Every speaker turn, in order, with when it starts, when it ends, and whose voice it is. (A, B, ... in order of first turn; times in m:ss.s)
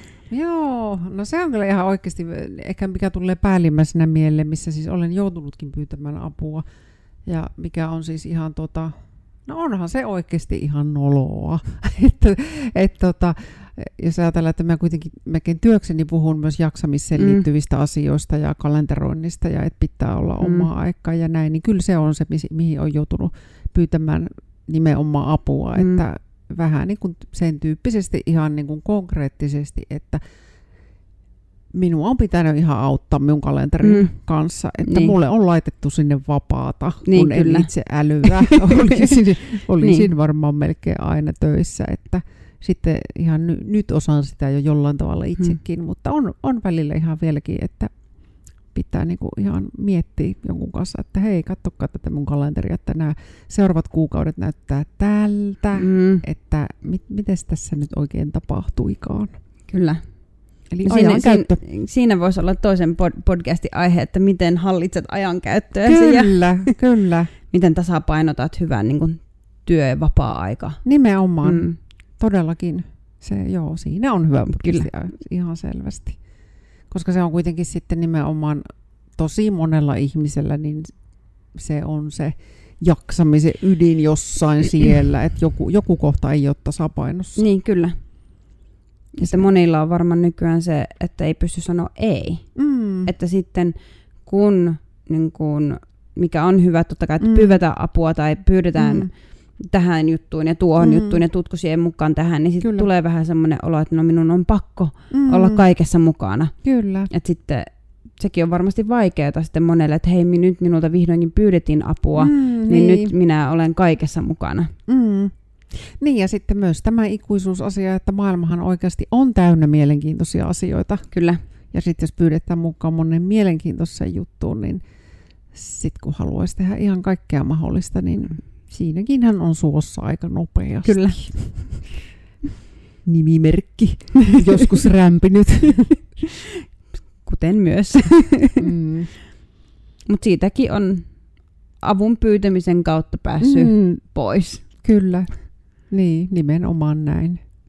0:00.3-0:06.6 A
0:07.2-0:08.9 A
0:09.4-0:30.2 A
0:17.2-0:17.4 B
0:20.4-0:20.7 B
0:25.8-0:26.0 B
0:31.7-0:47.9 A
0:33.8-0:34.1 B
0:34.8-0:35.1 B
0:37.0-0:37.7 B
0:39.8-0:40.1 B
0:48.7-0:59.4 A
0:55.8-0:56.2 B
0:59.7-1:00.0 B
1:00.7-1:01.6 A
1:00.8-1:06.7 B
1:05.8-1:07.3 A
1:07.5-1:10.8 B
1:10.8-1:16.2 A
1:11.4-1:11.8 B
1:14.5-1:14.9 B
1:16.9-1:20.9 A
1:21.5-1:27.4 A
1:27.4-1:28.0 B
1:29.2-1:32.5 B
1:29.2-1:29.5 A
1:32.6-1:33.1 A
1:33.0-1:46.5 B
1:37.2-1:37.6 A
1:38.8-1:39.1 A
1:40.8-1:41.2 A
1:42.6-1:42.9 A
1:45.1-1:45.6 A
1:46.6-1:47.1 A
1:47.1-1:54.7 B
1:52.2-1:53.1 A
1:54.9-2:01.1 A
2:01.1-2:01.4 B
2:01.7-2:04.8 A
2:05.5-2:11.9 A
2:10.8-2:11.8 B
2:13.0-2:16.0 A
2:17.2-2:18.6 B
2:18.6-2:19.1 A
2:20.0-2:21.1 B
2:21.8-2:24.6 B
2:23.4-2:24.0 A
2:24.8-2:27.4 A